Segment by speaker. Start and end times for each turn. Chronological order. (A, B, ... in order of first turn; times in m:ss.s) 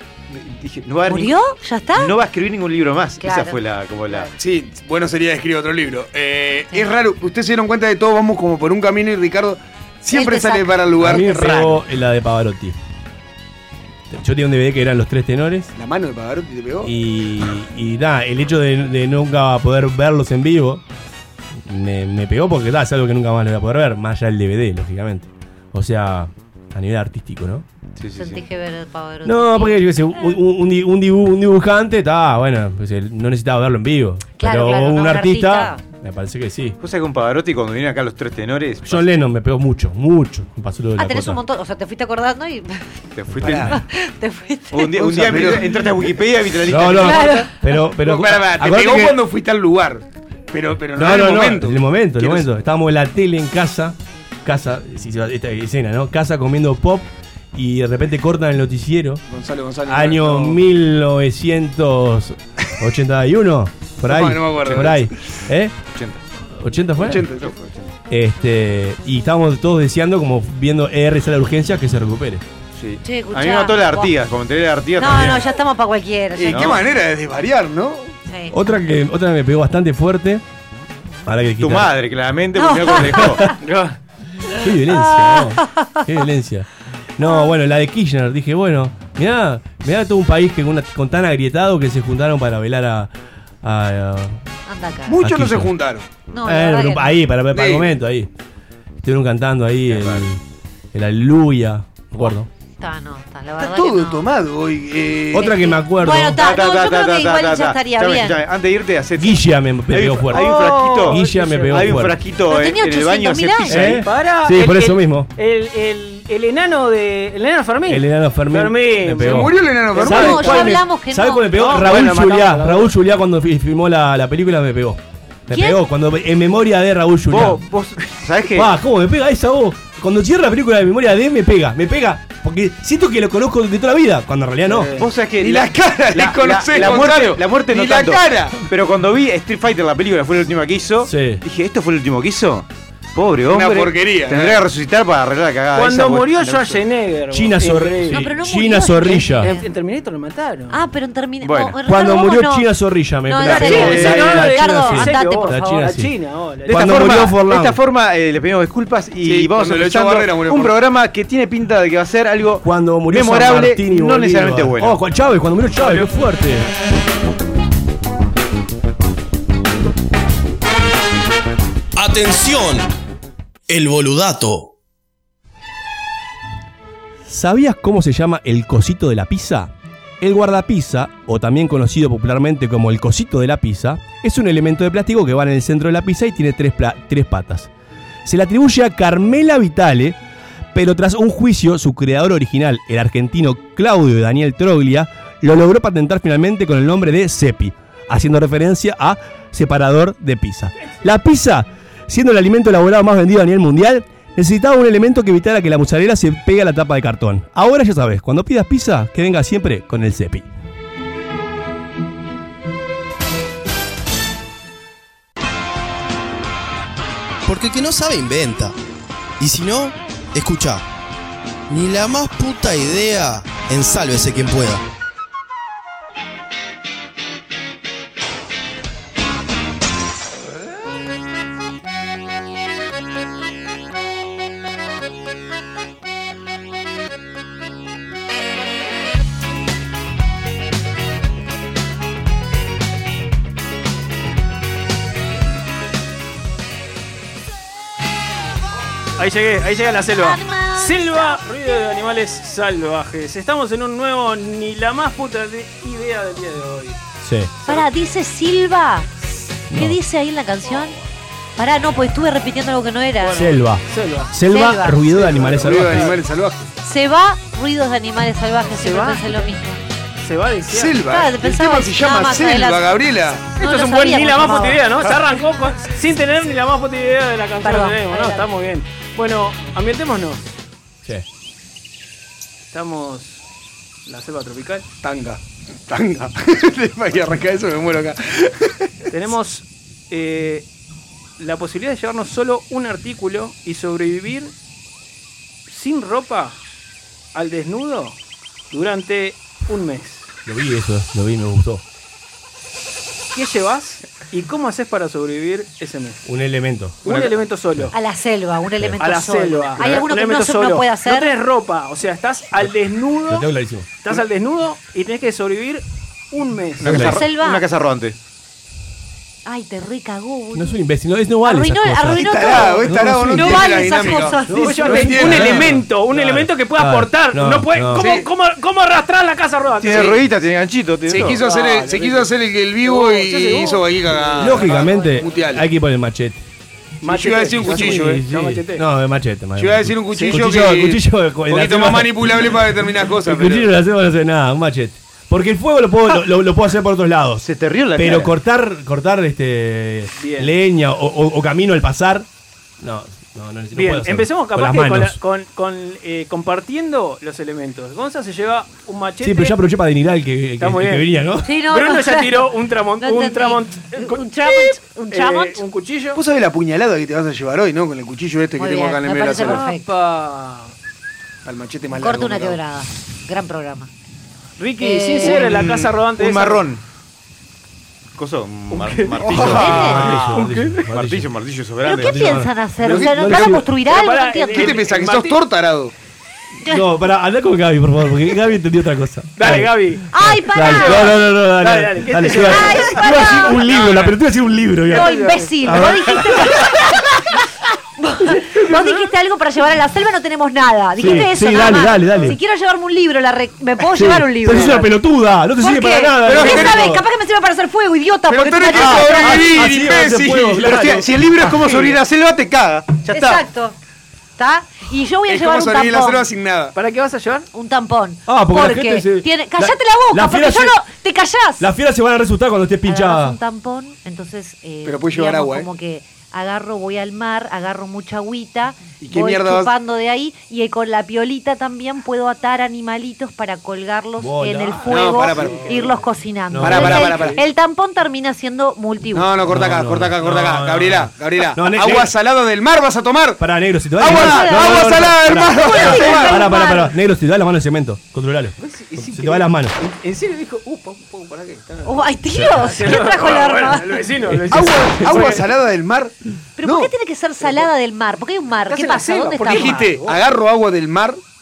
0:00.3-0:01.4 A
0:01.1-0:02.1 B
0:02.0-0:04.3 A
0:03.2-0:04.3 B
0:04.4-0:11.8 C
0:10.1-0:10.7 B
0:11.0-0:12.8 D
0:14.1-0:15.7 D
0:15.8-0:16.9 C
0:16.8-0:20.8 D
0:21.6-0:27.6 D
0:28.0-0:28.4 A
0:28.2-0:30.2 B
0:29.2-0:36.8 D
0:34.4-0:35.8 B
0:36.8-0:39.1 A
0:38.8-0:41.4 D
0:41.0-0:42.9 B
0:43.2-0:43.8 A
0:43.3-0:43.7 D
0:43.4-0:43.7 C
0:43.7-0:45.1 B
0:44.7-0:47.5 A
0:45.0-0:45.7 C
0:46.6-0:49.2 D
0:47.0-0:47.5 B
0:48.0-0:52.5 C
0:51.0-0:59.2 D
0:59.3-1:00.6 C
0:59.9-1:05.8 D
1:04.1-1:05.1 C
1:05.9-1:06.2 A
1:06.6-1:07.2 D
1:07.0-1:07.6 C
1:07.4-1:07.9 A
1:08.1-1:12.4 D
1:12.8-1:15.5 A
1:13.0-1:14.1 B
1:15.0-1:16.8 B
1:16.4-1:18.1 C
1:16.5-1:16.8 A
1:18.3-1:18.5 B
1:18.5-1:20.4 D
1:21.3-1:21.9 D
1:21.6-1:23.6 A
1:22.6-1:23.5 B
1:23.0-1:23.4 D
1:23.6-1:24.0 E
1:24.5-1:34.4 D
1:24.9-1:26.0 B
1:34.7-1:35.2 B
1:35.1-1:36.1 C
1:35.2-1:35.7 D
1:36.3-1:37.1 B
1:36.4-1:38.3 D
1:37.5-1:37.9 C
1:39.0-1:40.4 D
1:39.9-1:40.2 A
1:40.9-1:42.5 D
1:42.8-1:44.2 B
1:43.6-1:45.6 C
1:45.3-1:46.4 D
1:45.4-1:48.4 B
1:46.4-1:54.0 A
1:49.2-1:50.5 D
1:50.3-1:52.0 E
1:51.1-1:52.2 D
1:52.5-1:53.9 B
1:53.7-1:55.3 D
1:54.0-2:00.8 E
1:57.9-2:07.6 D
1:59.2-2:00.6 C
2:00.0-2:01.6 B
2:01.5-2:02.9 E
2:05.5-2:05.8 B
2:07.3-2:08.8 A
2:08.5-2:15.0 D
2:14.7-2:15.1 E
2:15.0-2:26.8 A
2:15.4-2:18.6 C
2:21.0-2:21.4 D
2:23.5-2:24.6 C
2:25.7-2:28.3 E
2:27.3-2:29.5 D
2:28.1-2:29.7 B
2:29.1-2:30.8 E
2:30.7-2:32.7 B
2:31.4-2:31.8 A
2:31.9-2:36.1 D
2:33.3-2:35.9 B
2:33.4-2:34.4 A
2:33.5-2:37.2 E
2:36.7-2:37.8 D
2:36.7-2:45.0 A
2:39.2-2:40.7 C
2:42.6-2:46.7 D
2:45.8-2:46.1 E
2:52.0-2:52.9 F
2:53.7-2:54.7 F
2:57.3-3:07.7 D
3:08.2-3:10.2 D
3:10.7-3:30.5 D
3:37.5-3:38.7 F
3:39.4-3:40.8 F
3:41.7-3:44.8 F
4:09.2-4:17.0 E
4:10.2-4:11.8 B
4:17.2-4:17.5 D
4:17.7-4:21.0 B
4:19.7-4:20.0 D
4:21.6-4:23.4 B
4:23.2-4:24.3 E
4:23.3-4:26.2 D
4:24.5-4:25.0 B
4:25.1-4:26.1 E
4:25.3-4:26.7 C
4:26.8-4:29.8 B
4:28.7-4:29.5 E
4:30.2-4:31.0 E
4:30.7-4:33.4 C
4:31.1-4:32.9 B
4:33.6-4:34.8 B
4:33.6-4:40.4 E
4:37.6-4:38.4 B
4:42.7-4:43.4 E
4:44.1-4:44.9 E
4:45.0-4:48.7 C
4:49.1-4:50.7 E
4:51.4-4:54.5 E
4:55.7-4:56.6 E
4:57.3-4:58.2 E
4:58.7-5:00.3 E
5:00.5-5:01.8 D
5:03.3-5:06.2 E
5:06.2-5:07.9 D
5:07.0-5:07.9 E
5:07.9-5:11.3 B
5:09.0-5:13.5 E
5:13.3-5:13.9 D
5:14.0-5:17.1 E
5:16.8-5:18.2 A
5:16.8-5:17.2 D
5:16.9-5:17.6 B
5:19.4-5:20.8 B
5:20.5-5:23.7 D
5:21.4-5:24.7 B
5:22.1-5:25.8 C
5:24.5-5:28.1 D
5:24.5-5:30.3 E
5:27.9-5:28.3 C
5:29.8-5:31.4 A
5:31.1-5:35.6 C
5:31.1-5:32.3 E
5:32.8-5:35.2 E
5:34.4-5:36.4 D
5:37.0-5:38.8 E
5:37.0-5:38.2 C
5:37.6-5:42.6 D
5:39.6-5:43.7 C
5:43.2-5:52.3 D
5:47.4-5:48.3 A
5:50.2-5:50.5 E
5:52.8-5:55.2 D
5:53.7-5:59.6 E
5:59.2-6:01.5 D
6:00.6-6:01.1 E
6:01.4-6:05.6 B
6:01.7-6:06.2 E
6:06.2-6:09.6 C
6:08.6-6:09.9 B
6:09.4-6:10.7 E
6:11.4-6:12.6 C
6:12.0-6:13.9 B
6:14.6-6:16.6 E
6:14.8-6:15.5 B
6:15.2-6:16.8 A
6:18.2-6:22.4 A
6:18.7-6:20.9 E
6:19.3-6:20.2 B
6:19.4-6:21.3 D
6:21.8-6:24.8 B
6:22.0-6:23.7 D
6:22.9-6:23.5 C
6:22.9-6:23.1 E
6:23.8-6:25.4 E
6:24.5-6:25.9 C
6:26.7-6:36.6 D
6:29.4-6:30.0 E
6:30.1-6:31.1 B
6:30.7-6:33.7 E
6:32.3-6:33.6 B
6:33.7-6:34.1 C
6:34.9-6:35.6 E
6:34.9-6:36.9 B
6:38.0-6:45.0 B
6:38.5-6:39.0 E
6:41.0-6:42.4 D
6:43.9-6:47.0 D
6:45.6-6:49.6 B
6:46.3-6:46.8 C
6:48.3-6:50.9 C
6:48.7-6:51.9 D
6:50.5-6:53.4 A
6:53.1-6:53.8 B
6:54.4-6:56.2 B
6:55.3-6:56.8 C
6:56.8-6:57.5 E
6:57.5-7:01.7 B
6:58.3-7:00.8 D
7:01.6-7:03.4 D
7:02.9-7:19.3 B
7:04.8-7:05.7 C
7:09.0-7:09.7 C
7:14.2-7:15.6 D
7:14.9-7:15.8 C
7:15.4-7:15.9 E
7:16.5-7:17.3 D
7:16.6-7:17.4 C
7:19.1-7:23.4 C
7:19.5-7:22.1 D
7:23.4-7:29.8 D
7:24.0-7:26.4 C
7:24.0-7:26.9 B
7:28.6-7:35.4 E
7:31.8-7:34.0 B
7:32.3-7:32.7 D
7:34.3-7:35.3 D
7:34.5-7:36.9 C
7:36.6-7:39.9 B
7:38.7-7:40.2 E
7:39.5-7:41.2 C